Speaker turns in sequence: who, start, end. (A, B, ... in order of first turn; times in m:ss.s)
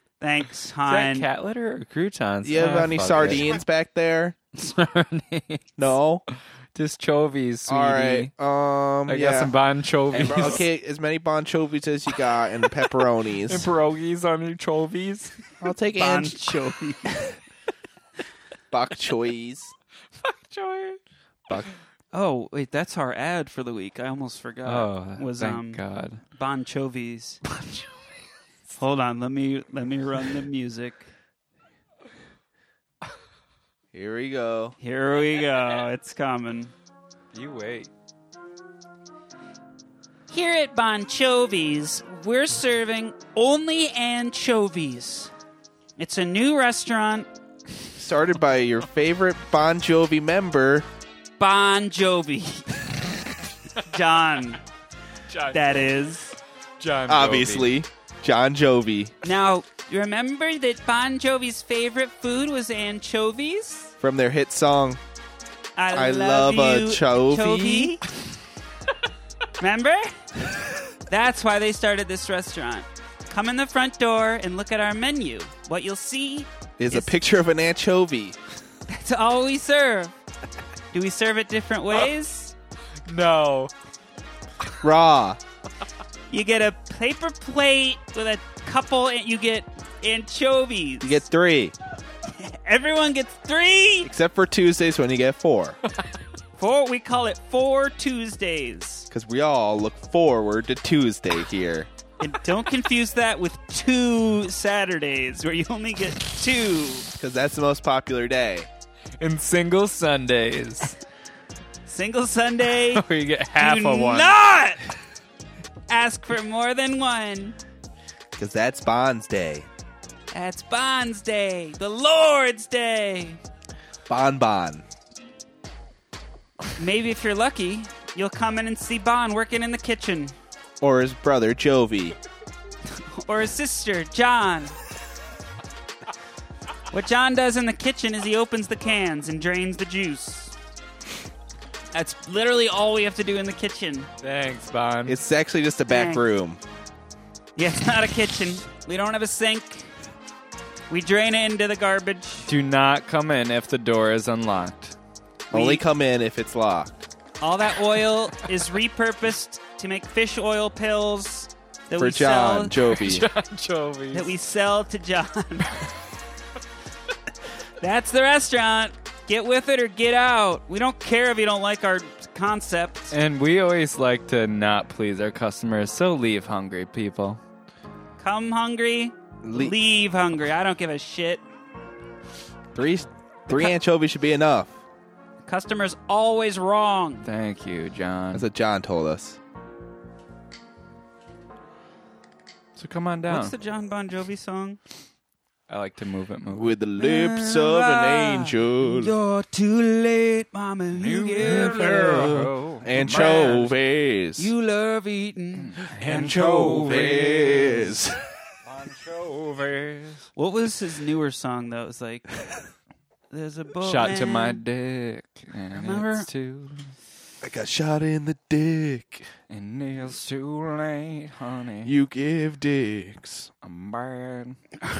0:00.2-0:01.3 A
0:00.9-0:03.6 B
0:02.4-0:04.4 C
0:04.5-0:05.9 B
0:05.8-0:06.2 C
0:06.7-0:08.3 B
0:07.7-0:09.6 C
0:09.1-0:10.7 B
0:10.1-0:13.7 C
0:13.5-0:15.4 B
0:15.6-0:16.4 C
0:16.0-0:17.4 A
0:18.7-0:19.7 C
0:20.2-0:21.0 B
0:22.1-0:27.4 A
0:24.6-0:26.2 B
0:27.5-0:27.9 B
0:28.8-0:31.1 A
0:33.9-0:34.8 C
0:34.8-0:36.7 A
0:37.3-0:37.9 B
0:40.3-0:45.3 A
0:46.0-0:47.3 A
0:48.0-0:50.9 C
0:51.4-0:52.9 A
0:53.8-0:54.6 A
0:55.3-0:55.9 B
0:55.5-0:56.4 A
0:56.8-0:57.7 B
0:57.1-0:59.1 C
0:59.2-1:03.9 A
1:04.0-1:05.0 C
1:05.8-1:08.0 A
1:05.9-1:08.0 C
1:09.6-1:10.4 A
1:11.1-1:17.2 A
1:16.8-1:18.4 C
1:18.9-1:20.2 A
1:20.9-1:22.5 A
1:23.1-1:23.7 B
1:24.8-1:25.4 C
1:26.3-1:31.2 A
1:31.0-1:31.8 C
1:32.3-1:34.1 A
1:34.0-1:35.8 C
1:36.6-1:39.1 A
1:39.1-1:41.9 C
1:42.2-1:47.1 A
1:47.2-1:48.7 C
1:49.2-1:50.9 B
1:51.9-1:53.0 A
1:52.9-1:54.4 B
1:53.6-1:54.8 A
1:55.9-1:57.6 A
1:58.4-1:59.7 C
2:00.3-2:03.4 A
2:04.1-2:04.8 C
2:06.8-2:10.4 A
2:10.8-2:12.2 C
2:12.9-2:14.8 A
2:16.9-2:20.5 A
2:21.9-2:24.1 A
2:24.2-2:25.2 B
2:25.1-2:26.6 C
2:25.9-2:26.2 A
2:27.6-2:29.9 A
2:30.9-2:32.5 A
2:32.5-2:35.0 B
2:35.5-2:35.8 A
2:35.5-2:37.0 C
2:37.4-2:42.8 A
2:42.0-2:43.3 C
2:42.9-2:44.3 B
2:44.1-2:45.9 A
2:47.8-2:53.2 A
2:53.1-2:57.4 B
2:58.2-3:01.4 A
2:59.4-2:59.8 C
3:02.8-3:04.8 C
3:05.4-3:07.3 A
3:07.2-3:08.5 B
3:08.3-3:09.4 C
3:12.8-3:13.6 B
3:13.3-3:14.8 A
3:15.7-3:16.8 B
3:16.5-3:19.1 C
3:17.0-3:23.7 A
3:20.9-3:23.6 B
3:21.4-3:24.5 C
3:24.4-3:27.9 A
3:25.6-3:27.9 B
3:26.1-3:28.2 C
3:28.6-3:30.3 B
3:30.4-3:32.3 A
3:33.3-3:34.6 A
3:33.8-3:37.0 B
3:35.7-3:36.3 A
3:37.4-3:39.3 C
3:39.5-3:41.9 B
3:41.8-3:43.5 C
3:43.6-3:44.6 B